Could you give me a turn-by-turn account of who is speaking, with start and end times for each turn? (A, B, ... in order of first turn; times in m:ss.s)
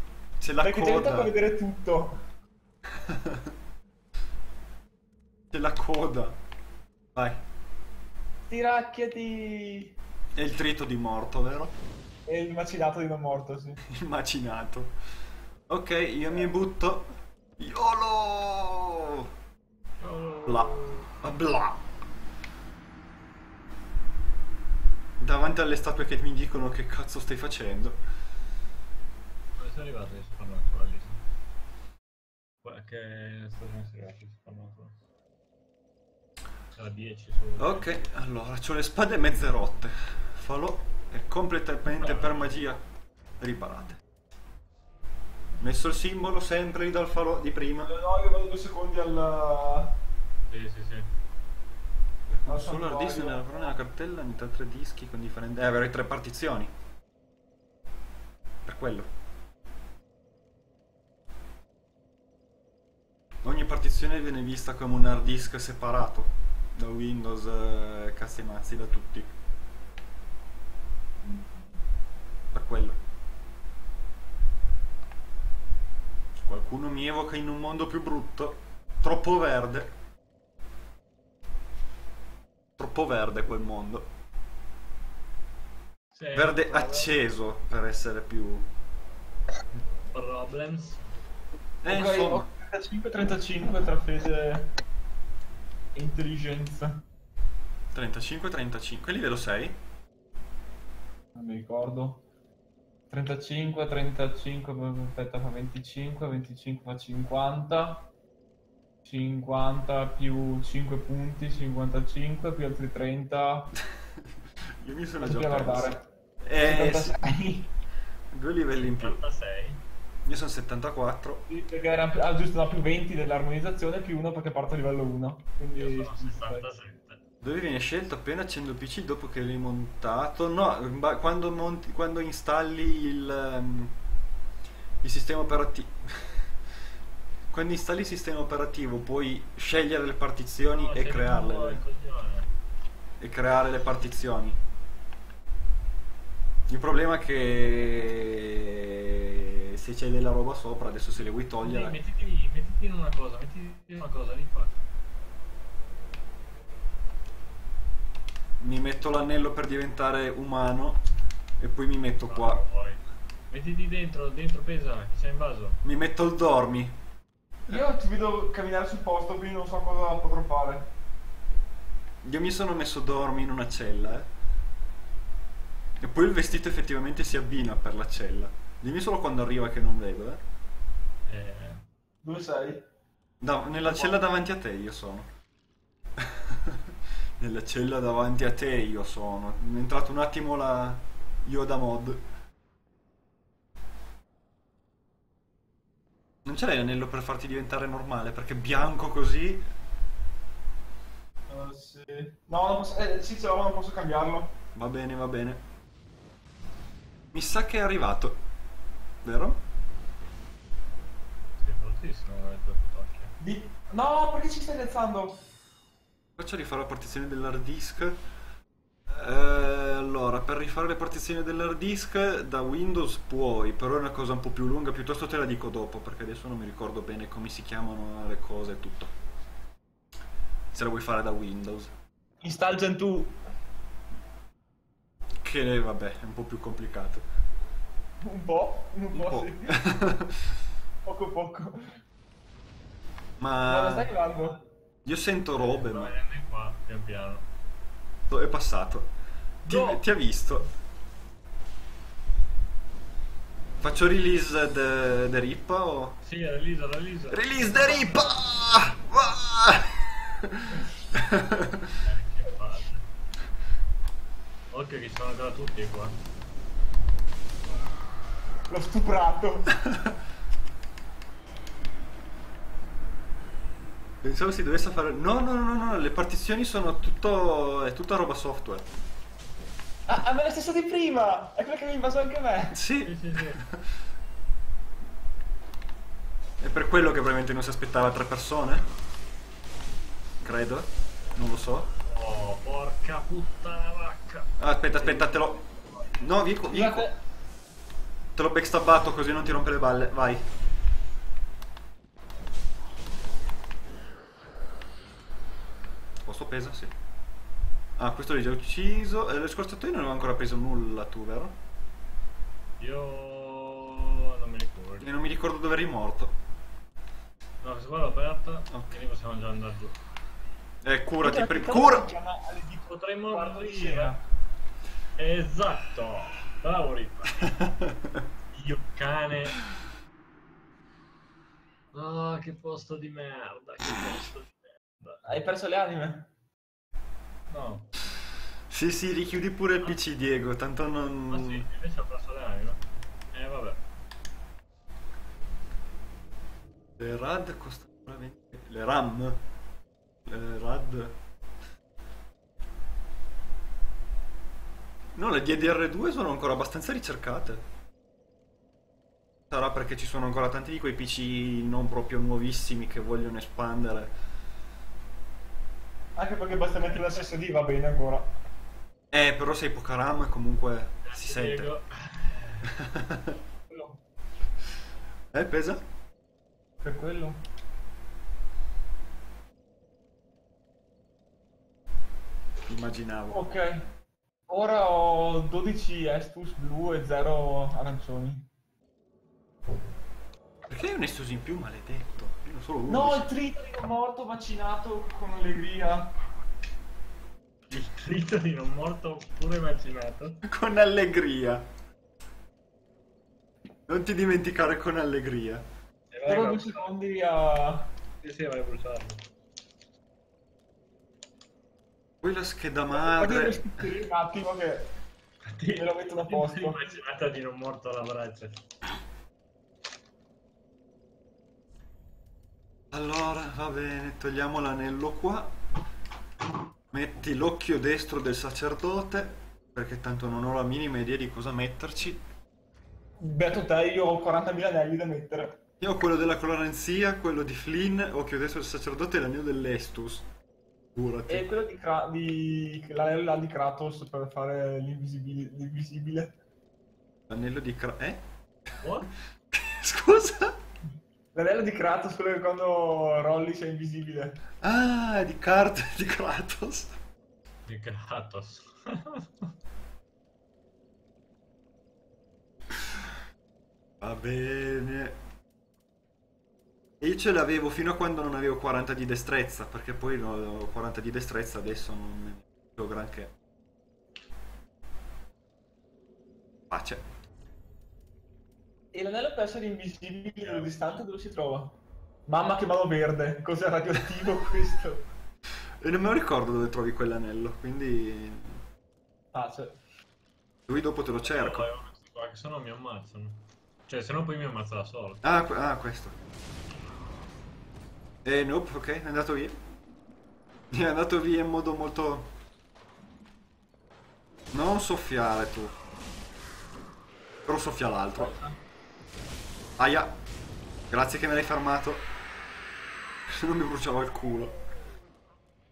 0:00.4-0:01.3 A
0:00.6-0:02.2 B
0:02.9-0:03.5 A
0:05.5-0:06.4 A
0:07.1-0:07.4 A
0:08.5-0:09.9 B
0:10.3-0:11.7 A
0:12.3-0:13.8 B
0:13.9-0:14.9 A
0:15.7-0:19.3 A
0:20.0-0:21.1 C
0:21.2-0:21.9 A
0:25.2-0:28.0 A
0:29.6-0:31.2 C
0:32.6-0:35.0 C
0:36.8-0:38.0 C
0:37.6-0:42.8 A
0:42.0-0:42.5 C
0:43.4-0:44.0 A
0:45.6-0:47.9 A
0:47.8-0:50.0 B
0:50.5-0:51.1 C
0:52.3-0:56.7 A
0:52.4-0:53.7 B
0:58.6-0:59.1 A
1:03.4-1:09.3 A
1:12.5-1:13.0 A
1:16.4-1:19.9 A
1:22.8-1:24.1 A
1:26.1-1:27.1 C
1:26.3-1:28.7 A
1:30.1-1:31.0 C
1:31.8-1:32.4 A
1:31.8-1:34.7 B
1:35.9-1:37.0 B
1:37.9-1:39.8 A
1:41.3-1:42.2 B
1:43.1-1:48.1 B
1:49.0-1:53.7 B
1:54.8-1:57.2 A
1:55.2-1:56.0 B
1:56.6-1:57.7 B
1:58.3-1:59.2 A
1:58.7-1:59.8 C
2:00.2-2:01.4 A
2:01.5-2:06.6 B
2:05.8-2:07.2 C
2:07.4-2:14.0 A
2:15.0-2:16.5 A
2:17.5-2:21.8 A
2:20.7-2:22.5 C
2:23.2-2:24.6 A
2:26.7-2:32.0 A
2:31.6-2:34.7 C
2:38.6-2:41.0 A
2:41.6-2:42.6 A
2:42.2-2:45.8 C
2:45.8-2:47.0 A
2:47.7-2:50.9 B
2:52.2-2:54.3 A
2:56.0-3:00.4 A
3:01.3-3:01.8 C
3:02.2-3:02.9 B
3:03.4-3:05.3 A
3:03.8-3:04.2 B
3:06.2-3:12.2 A
3:16.4-3:19.6 A
3:21.5-3:24.5 B
3:24.7-3:25.6 A
3:27.3-3:28.4 A
3:29.2-3:29.6 A
3:31.6-3:33.3 C
3:33.4-3:35.4 B
3:36.4-3:38.2 A
3:39.1-3:49.1 A
3:50.7-3:51.9 A
3:52.4-3:53.4 B
3:55.4-3:57.2 A
3:58.2-3:59.8 B
3:59.1-4:00.5 A
4:01.0-4:02.0 B
4:03.4-4:04.1 A
4:03.7-4:04.6 B
4:05.0-4:06.1 A
4:05.5-4:07.4 C
4:08.3-4:09.0 A
4:09.6-4:10.7 A
4:09.7-4:09.9 C
4:13.8-4:16.2 A
4:16.2-4:18.4 C
4:17.3-4:21.9 A
4:22.0-4:23.0 C
4:24.7-4:26.2 C
4:28.7-4:29.8 B
4:34.2-4:38.9 A
4:40.1-4:42.8 B
4:42.7-4:43.8 A
4:43.0-4:43.6 C
4:46.6-4:48.8 A
4:50.4-4:51.9 A
4:52.0-4:55.4 C
4:54.6-4:55.6 A
4:56.2-4:57.1 A
4:56.7-4:57.2 B
4:58.4-5:00.4 A
5:06.2-5:06.9 A
5:08.0-5:11.5 A
5:12.8-5:15.1 C
5:15.0-5:16.3 A
5:17.6-5:20.0 C
5:18.7-5:19.0 A
5:20.8-5:22.1 A
5:21.2-5:24.2 B
5:22.8-5:24.1 C
5:25.2-5:27.6 C
5:27.4-5:28.2 A
5:28.5-5:29.6 C
5:31.9-5:35.2 C
5:35.2-5:36.3 B
5:37.5-5:37.9 C
5:38.7-5:41.7 A
5:41.3-5:42.8 C
5:43.3-5:43.8 C
5:47.0-5:49.4 A
5:50.2-5:51.2 A
5:55.1-5:57.6 A
5:59.5-6:04.1 A
6:06.2-6:08.3 B
6:06.9-6:07.2 C
6:09.1-6:11.7 A
6:11.0-6:12.7 C
6:12.7-6:13.4 A
6:13.7-6:14.0 B
6:15.3-6:15.8 A
6:16.8-6:17.4 B
6:22.7-6:23.4 A
6:23.3-6:23.9 B
6:24.5-6:28.5 B
6:30.7-6:33.3 A
6:32.9-6:36.1 B
6:37.7-6:40.4 C
6:40.4-6:41.7 A
6:43.9-6:45.6 A
6:46.1-6:46.9 C
6:46.2-6:47.9 B
6:48.2-6:49.2 C
6:52.2-6:53.9 A
6:52.9-6:54.9 B
6:55.5-6:58.5 C
6:55.7-6:56.8 B
7:02.9-7:05.5 A
7:06.9-7:12.2 A
7:13.2-7:15.6 B
7:15.8-7:20.3 A
7:20.9-7:21.5 A
7:21.3-7:26.3 B
7:27.3-7:28.2 A
7:28.8-7:29.1 C
7:29.5-7:30.6 A
7:31.3-7:34.4 B
7:34.6-7:37.0 A
7:37.6-7:39.5 C
7:44.0-7:45.2 A
7:47.0-7:53.3 A
7:56.7-7:57.0 A
7:58.9-8:05.0 B
8:00.4-8:00.7 C
8:05.8-8:08.6 A
8:09.3-8:09.8 B
8:10.7-8:11.6 A
8:11.2-8:15.2 C
8:15.2-8:16.1 A
8:18.2-8:19.6 A
8:20.7-8:22.3 A
8:24.5-8:25.7 A
8:27.4-8:28.3 A
8:28.2-8:28.6 B
8:29.8-8:30.1 A
8:30.9-8:32.1 A
8:33.3-8:34.6 A